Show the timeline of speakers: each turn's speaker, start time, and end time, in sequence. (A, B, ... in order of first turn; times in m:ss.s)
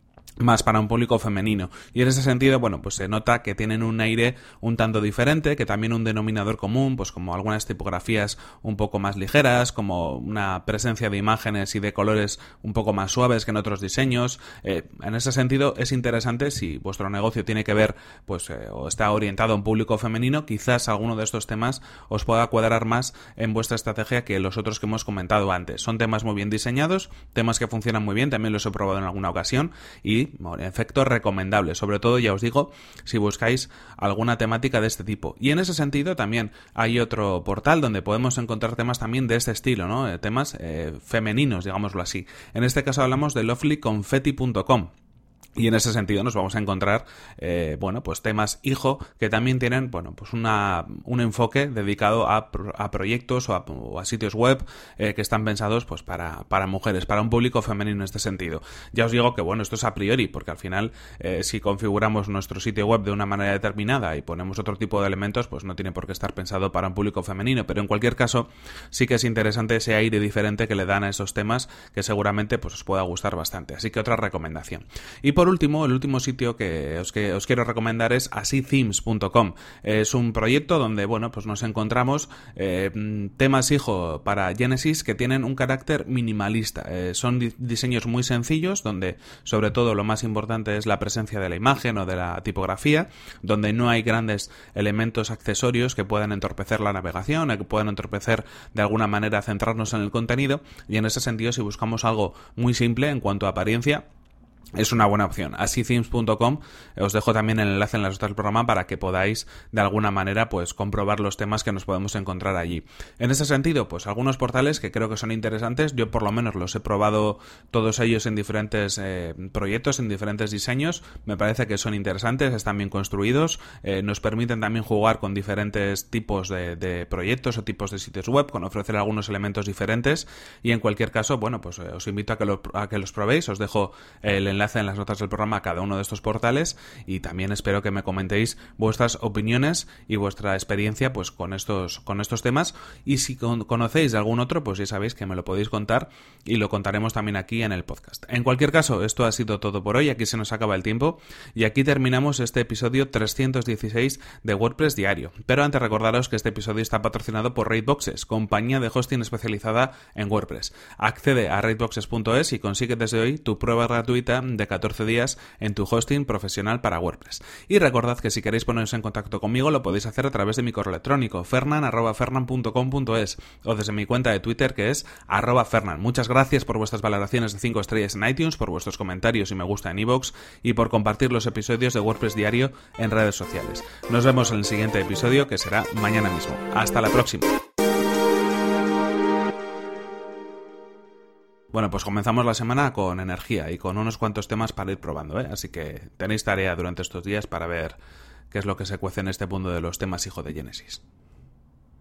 0:00.4-0:44.9 A
0:45.6-1:44.1 A
1:44.8-3:07.5 A
3:11.7-3:18.0 A
3:18.5-3:21.0 A